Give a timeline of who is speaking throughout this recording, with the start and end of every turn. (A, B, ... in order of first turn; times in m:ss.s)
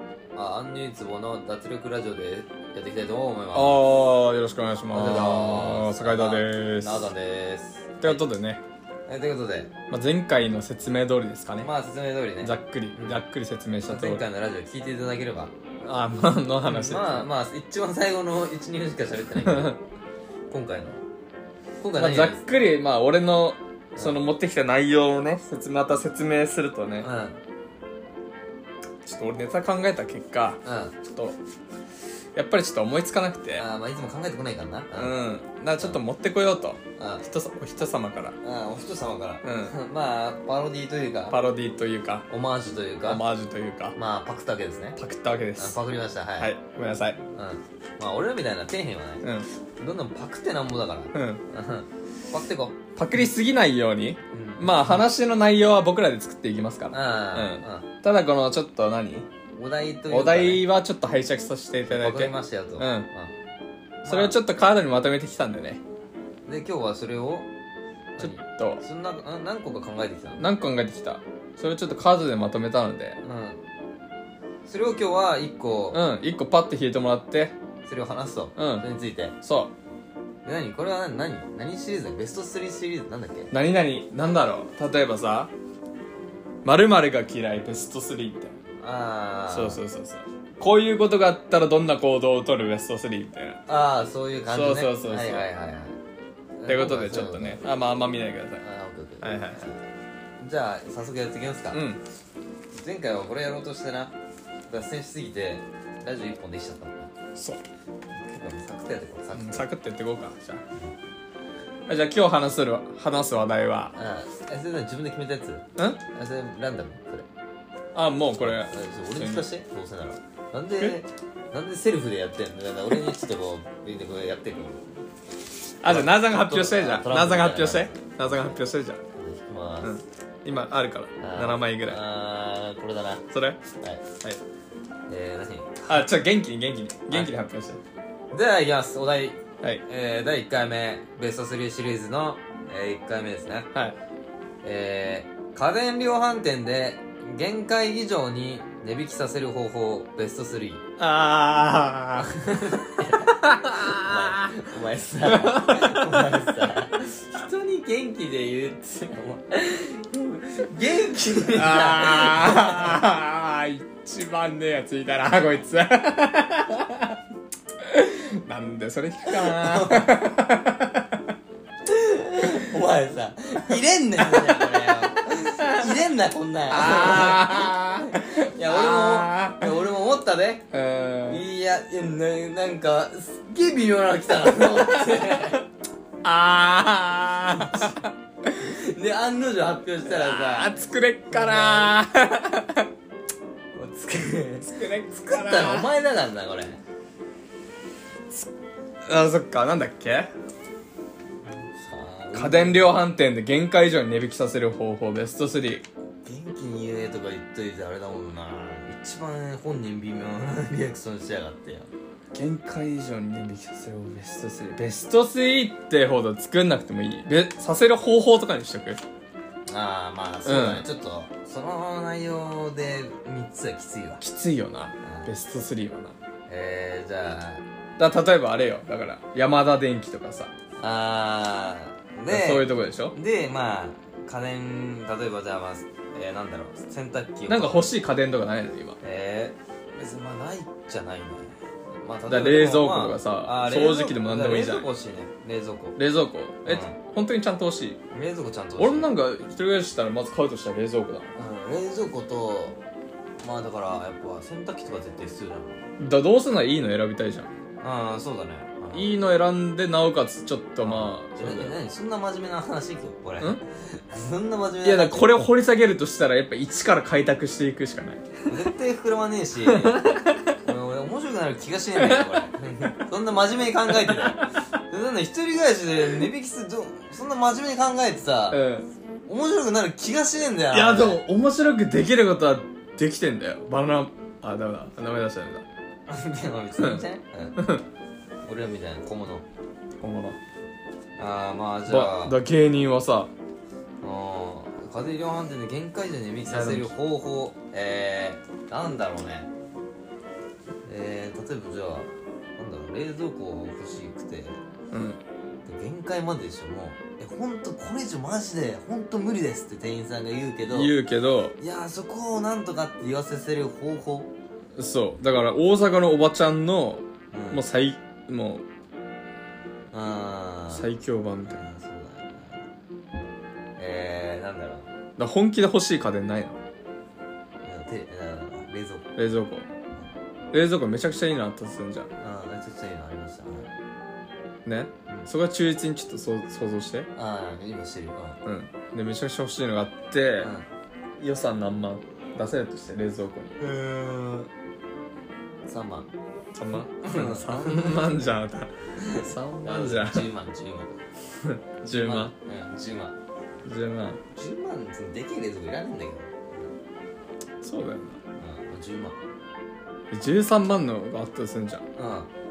0:00.4-0:03.8 A
0:03.5-0:07.1 B
0:04.9-0:08.3 A
0:08.0-0:08.6 B
0:09.1-0:09.7 A
0:09.9-0:11.7 B
0:11.6-0:13.2 A
0:12.4-0:14.2 B
0:13.9-0:15.6 A
0:15.8-0:17.3 B
0:16.6-0:19.8 A
0:19.4-0:19.8 B
0:20.5-0:21.0 A
0:21.8-0:22.4 A
0:22.0-0:27.1 B
0:27.0-0:27.4 A
0:29.0-0:31.4 B
0:30.6-0:31.0 A
0:32.4-0:33.6 B
0:33.6-0:35.2 A
0:35.0-0:38.4 B
0:37.0-0:37.2 A
0:38.4-0:41.4 A
0:39.4-0:39.8 B
0:41.3-0:42.3 B
0:42.3-0:43.2 A
0:43.1-0:44.0 B
0:44.0-0:45.0 A
0:45.0-0:45.8 B
0:45.6-0:46.5 A
0:46.4-0:47.2 B
0:47.4-0:49.3 A
0:49.8-0:52.8 A
0:51.1-0:51.4 B
0:53.0-0:59.3 B
0:54.3-0:55.0 A
0:56.9-0:57.9 A
0:59.5-1:00.7 A
1:00.1-1:03.1 B
1:01.9-1:03.3 A
1:04.0-1:04.4 A
1:04.1-1:05.8 B
1:06.5-1:07.5 A
1:08.2-1:10.5 A
1:08.2-1:08.8 B
1:10.4-1:13.2 B
1:13.2-1:13.6 A
1:14.6-1:16.0 A
1:15.9-1:17.6 B
1:17.8-1:19.4 A
1:18.6-1:18.8 B
1:19.4-1:19.7 B
1:20.4-1:23.5 A
1:23.5-1:25.5 B
1:26.6-1:28.6 B
1:28.8-1:29.8 A
1:29.5-1:33.6 B
1:33.7-1:36.0 A
1:34.5-1:35.5 B
1:36.6-1:37.6 A
1:36.7-1:38.6 B
1:38.6-1:39.9 A
1:39.2-1:39.7 B
1:40.4-1:41.8 A
1:41.7-1:42.0 B
1:42.7-1:44.2 A
1:44.7-1:47.1 A
1:47.4-1:47.6 B
1:48.2-1:49.7 A
1:49.3-1:50.6 B
1:51.9-1:54.0 B
1:54.0-1:57.3 A
1:57.9-1:59.5 B
1:58.4-2:04.9 A
2:05.8-2:09.0 B
2:05.8-2:08.6 A
2:09.2-2:10.0 A
2:09.8-2:12.0 B
2:11.2-2:13.2 A
2:13.3-2:13.6 B
2:15.1-2:16.1 A
2:15.9-2:17.8 B
2:18.3-2:23.7 A
2:24.6-2:30.8 A
2:31.0-2:32.3 B
2:32.2-2:43.0 A
2:33.1-2:34.6 B
2:35.2-2:36.7 B
2:41.5-2:47.2 B
2:47.8-2:51.1 B
2:49.3-2:50.4 A
2:51.9-3:00.6 A
2:54.2-2:55.9 B
2:56.7-2:59.7 B
3:00.7-3:01.4 B
3:01.3-3:05.6 A
3:06.2-3:08.7 B
3:07.6-3:07.9 A
3:08.6-3:11.9 A
3:10.0-3:12.9 B
3:13.7-3:16.8 A
3:14.6-3:15.9 B
3:19.0-3:20.3 B
3:21.5-3:22.9 A
3:22.3-3:25.9 B
3:26.2-3:31.9 A
3:32.3-3:39.0 B
3:39.7-3:44.2 A
3:40.4-3:40.9 B
3:44.2-3:46.2 B
3:45.0-3:45.3 A
3:46.5-3:47.6 A
3:48.0-3:50.5 B
3:50.8-3:57.9 A
3:52.3-3:53.2 B
3:57.5-3:59.0 B
3:59.0-4:06.0 A
4:02.3-4:04.9 B
4:06.0-4:08.0 B
4:06.7-4:07.0 A
4:08.1-4:09.1 A
4:08.8-4:11.3 B
4:11.4-4:12.8 A
4:13.4-4:15.9 A
4:16.0-4:17.5 B
4:17.8-4:19.1 A
4:18.9-4:21.8 B
4:20.8-4:25.5 A
4:24.8-4:28.3 B
4:28.5-4:38.6 A
4:29.7-4:30.5 B
4:34.0-4:34.3 B
4:38.5-4:38.9 B
4:39.3-4:41.2 A
4:40.7-4:45.6 B
4:46.1-4:47.6 A
4:46.8-4:47.0 B
4:47.6-4:47.8 B
4:48.4-4:49.5 A
4:50.0-4:50.4 B
4:51.2-4:52.4 A
4:51.9-4:53.3 B
4:54.0-4:59.5 A
4:56.5-4:56.9 B
5:00.9-5:04.6 A
5:04.9-5:05.2 B
5:05.7-5:10.9 A
5:10.7-5:11.6 B
5:11.6-5:14.3 A
5:14.8-5:18.6 B
5:17.3-5:17.6 A
5:19.9-5:20.9 A
5:20.7-5:21.6 B
5:21.4-5:22.6 A
5:23.8-5:24.9 A
5:25.2-5:26.6 B
5:27.6-5:29.1 A
5:29.2-5:29.7 B
5:30.5-5:32.1 B
5:32.2-5:33.7 A
5:34.6-5:37.1 B
5:37.2-5:38.4 A
5:38.4-5:40.5 B
5:40.4-5:40.7 A
5:41.2-5:43.6 B
5:43.6-5:44.5 A
5:45.7-5:46.1 A
5:46.6-5:50.3 B
5:47.0-5:48.1 A
5:49.0-5:50.9 A
5:51.4-5:52.3 B
5:51.8-5:53.2 A
5:53.6-5:54.2 B
5:54.3-5:56.6 A
5:57.6-5:58.2 B
5:58.4-5:59.2 A
6:00.1-6:01.8 B
6:02.0-6:02.3 A